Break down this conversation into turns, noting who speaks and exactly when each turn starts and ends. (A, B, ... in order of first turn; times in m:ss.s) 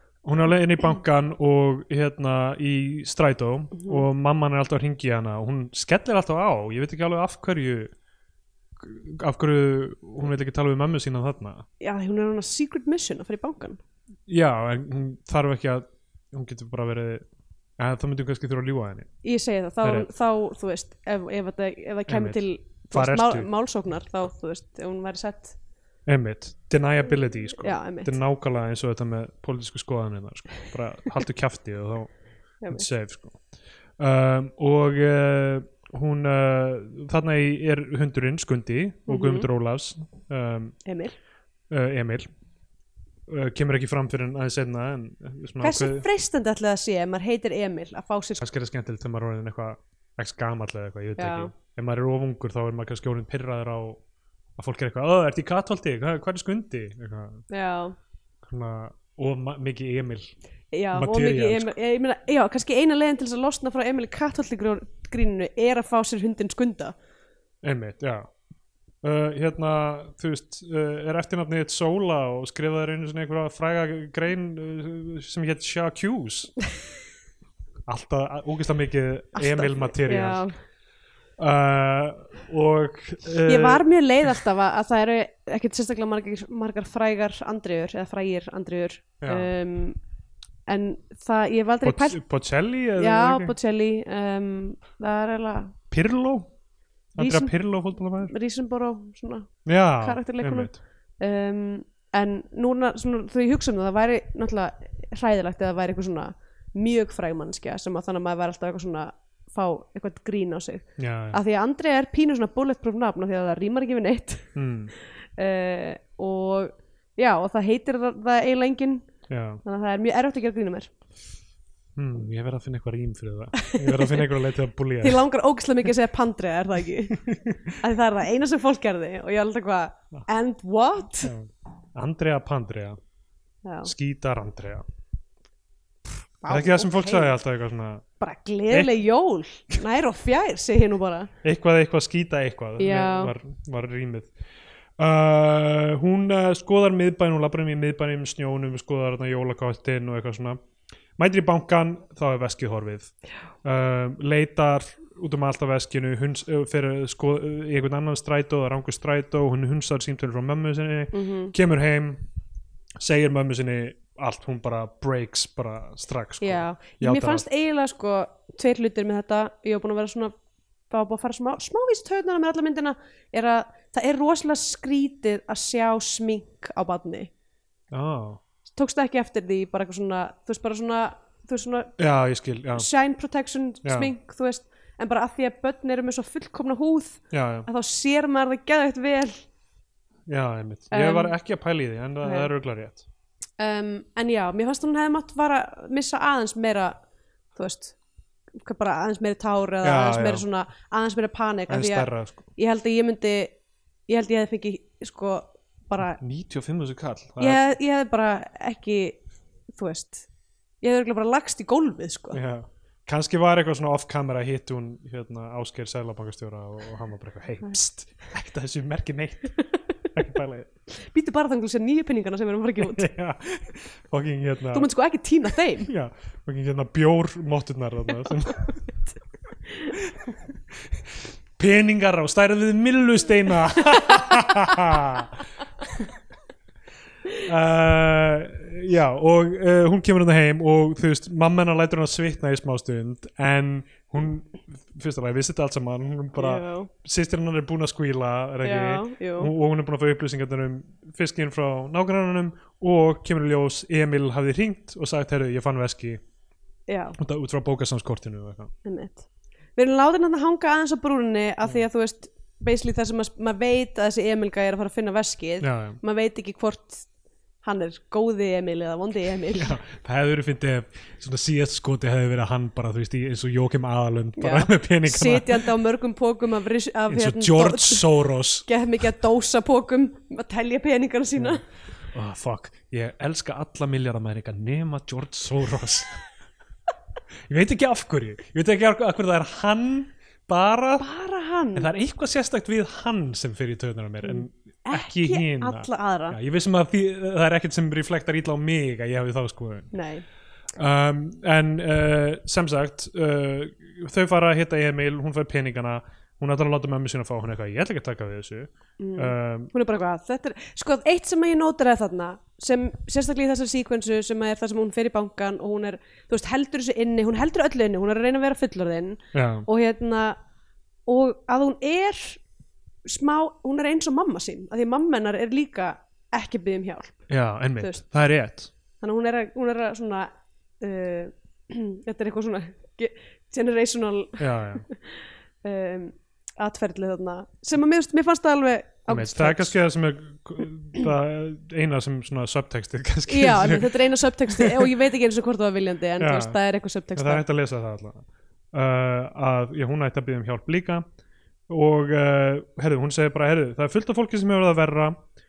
0:00.2-0:07.9 A
0:03.8-0:04.0 B
0:08.8-0:11.6 A
0:11.8-0:13.8 B
0:14.3-0:17.2 A
0:17.8-0:19.1 A
0:19.2-0:25.5 B
0:19.8-0:20.1 A
0:22.1-0:23.5 A
0:26.0-0:33.4 A
0:27.6-0:28.2 B
0:32.6-0:32.9 B
0:34.0-0:40.8 A
0:39.1-0:39.5 B
0:40.8-0:41.1 B
0:41.7-0:42.3 A
0:43.3-0:46.0 A
0:45.6-0:48.4 B
0:48.4-0:54.0 A
0:51.2-0:51.5 B
0:54.6-0:57.4 A
0:57.5-0:58.0 B
0:58.4-1:00.3 A
1:00.7-1:06.9 B
1:00.9-1:01.7 A
1:07.6-1:08.3 A
1:09.0-1:16.5 A
1:17.9-1:20.4 A
1:19.3-1:20.6 B
1:21.4-1:24.3 A
1:23.4-1:30.0 B
1:29.2-1:29.5 A
1:30.7-1:32.2 B
1:31.8-1:33.5 A
1:33.0-1:35.7 B
1:35.9-1:36.5 A
1:37.1-1:38.3 A
1:37.2-1:37.5 B
1:38.2-1:54.5 B
1:39.6-1:40.8 A
1:51.0-1:51.4 A
1:54.6-1:54.9 A
1:55.4-1:59.1 B
1:59.3-1:59.6 A
1:59.6-2:00.9 B
2:02.0-2:05.2 A
2:03.6-2:04.3 B
2:05.0-2:07.2 B
2:07.2-2:07.8 A
2:07.8-2:11.3 B
2:11.2-2:13.0 A
2:13.6-2:13.9 B
2:13.8-2:14.8 A
2:16.4-2:17.3 B
2:16.5-2:18.0 A
2:18.2-2:21.3 B
2:18.7-2:19.0 A
2:21.4-2:24.3 A
2:22.8-2:23.3 B
2:25.0-2:30.6 A
2:31.2-2:42.2 A
2:41.1-2:41.5 B
2:43.0-2:47.4 A
2:46.4-2:50.3 B
2:50.9-2:57.3 B
2:57.9-2:58.4 A
2:58.7-3:01.9 B
3:02.0-3:02.9 A
3:02.8-3:09.4 B
3:03.8-3:04.1 A
3:07.3-3:07.7 A
3:10.3-3:13.0 A
3:10.9-3:11.3 B
3:12.2-3:12.5 B
3:13.6-3:17.0 B
3:17.5-3:18.0 B
3:18.6-3:23.6 B
3:19.8-3:20.4 A
3:21.7-3:22.5 A
3:24.1-3:26.2 B
3:26.0-3:27.6 A
3:27.4-3:29.2 B
3:29.7-3:30.2 B
3:30.8-3:32.4 B
3:32.3-3:40.7 A
3:40.9-3:43.0 B
3:42.8-3:44.9 A
3:44.7-3:45.9 B
3:45.8-3:48.8 A
3:49.9-3:51.0 A
3:51.6-3:55.3 A
3:57.4-4:16.2 A
4:06.4-4:06.9 B
4:08.6-4:09.5 B
4:16.9-4:17.2 B
4:17.2-4:18.7 A
4:18.8-4:27.1 B
4:25.6-4:26.0 A
4:27.6-4:29.7 B
4:29.5-4:35.6 A
4:34.4-4:38.1 B
4:37.1-4:38.7 A
4:38.6-4:41.6 B
4:42.1-4:46.2 A
4:47.5-4:51.1 A
4:51.0-4:51.9 B
4:51.7-4:59.9 A
4:54.2-4:56.4 B
4:59.9-5:00.2 B
5:00.8-5:09.7 A
5:09.0-5:20.4 B
5:19.3-5:19.6 A
5:21.0-5:22.4 B
5:23.0-5:27.2 B
5:27.3-5:28.7 A
5:29.0-5:39.7 B
5:34.4-5:34.8 A
5:39.1-5:44.0 A
5:43.3-5:47.4 B
5:44.5-5:44.9 A
5:46.2-5:46.6 A
5:47.1-5:51.0 A
5:51.7-5:55.2 A